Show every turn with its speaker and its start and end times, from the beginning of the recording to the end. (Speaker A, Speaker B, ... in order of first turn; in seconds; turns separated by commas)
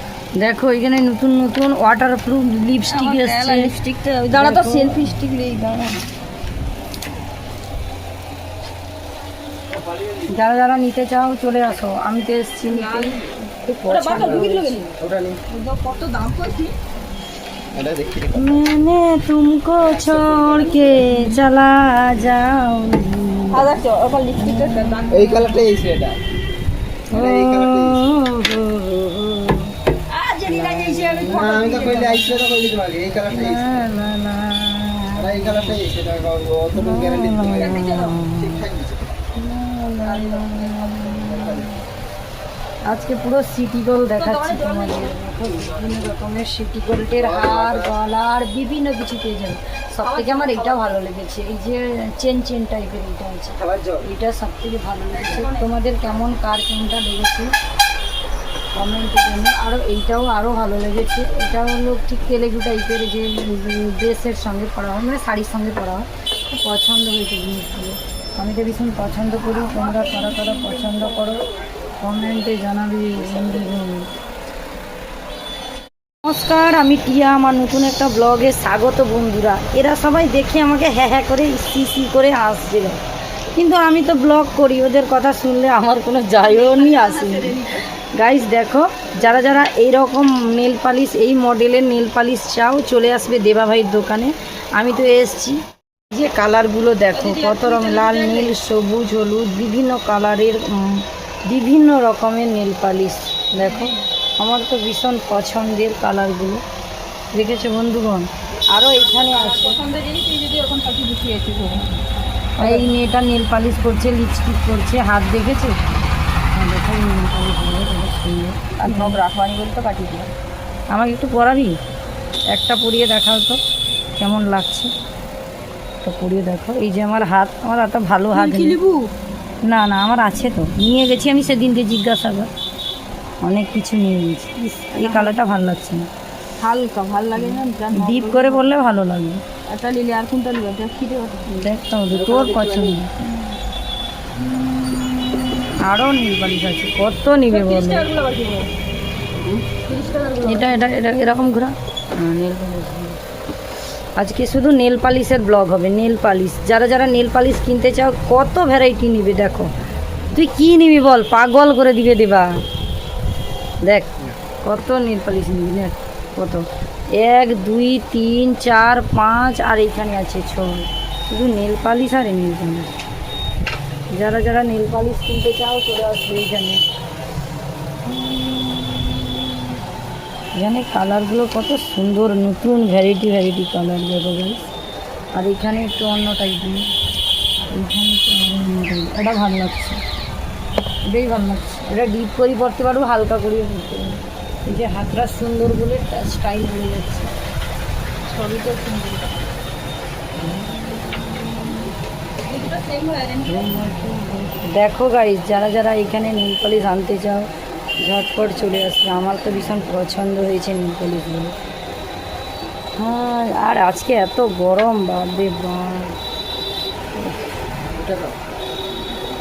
Speaker A: 0.3-3.7, Speaker B: 2.9-6.0, Speaker A: 4.3-5.1, Speaker A: 10.3-14.9, Speaker B: 12.7-13.2, Speaker B: 13.9-14.9, Speaker C: 14.2-14.4, Speaker C: 14.9-15.4, Speaker B: 15.5-16.8, Speaker C: 17.7-18.6, Speaker A: 18.3-23.8, Speaker C: 19.8-21.2, Speaker B: 23.5-25.4, Speaker A: 24.4-25.7, Speaker C: 25.1-26.2, Speaker A: 27.1-29.8, Speaker C: 27.1-28.2, Speaker B: 30.1-32.6, Speaker A: 30.4-31.8, Speaker C: 31.3-33.8, Speaker A: 33.3-35.8, Speaker C: 35.1-39.1, Speaker A: 36.7-38.7, Speaker B: 37.4-38.2, Speaker A: 39.3-41.8, Speaker B: 40.0-41.0, Speaker C: 41.3-41.7, Speaker A: 42.9-57.5, Speaker B: 44.1-45.2, Speaker C: 47.2-47.9, Speaker B: 50.0-50.9, Speaker C: 53.6-54.0, Speaker B: 55.1-55.7, Speaker A: 58.7-71.4, Speaker B: 69.6-71.0, Speaker A: 72.0-74.1, Speaker A: 76.2-83.0, Speaker A: 83.5-106.6, Speaker B: 86.4-87.8, Speaker B: 97.1-98.5, Speaker B: 103.6-104.0, Speaker A: 107.3-109.8, Speaker B: 109.3-111.9, Speaker B: 112.5-113.0, Speaker A: 112.6-115.8, Speaker A: 116.5-119.2, Speaker B: 118.8-120.3, Speaker A: 120.9-121.7, Speaker A: 122.5-123.6, Speaker A: 124.2-124.9, Speaker A: 126.0-128.8, Speaker B: 128.3-129.1, Speaker A: 129.6-132.5, Speaker A: 133.4-136.1, Speaker B: 134.9-135.4, Speaker B: 136.6-138.7, Speaker A: 137.3-139.4, Speaker B: 139.7-141.5, Speaker A: 141.5-143.3, Speaker C: 142.1-143.0, Speaker A: 145.8-148.1, Speaker B: 147.5-148.7, Speaker B: 149.5-150.8, Speaker A: 150.4-153.2, Speaker A: 154.2-159.7, Speaker A: 160.3-162.5, Speaker A: 163.8-172.9, Speaker A: 174.1-176.8, Speaker A: 178.1-179.4, Speaker A: 180.5-184.7, Speaker A: 185.3-186.9, Speaker A: 187.7-190.0, Speaker A: 191.1-197.3, Speaker B: 198.2-199.4, Speaker A: 200.4-201.9, Speaker B: 202.4-203.8, Speaker A: 203.4-207.5, Speaker A: 208.0-211.5, Speaker A: 213.0-216.2, Speaker C: 218.0-218.3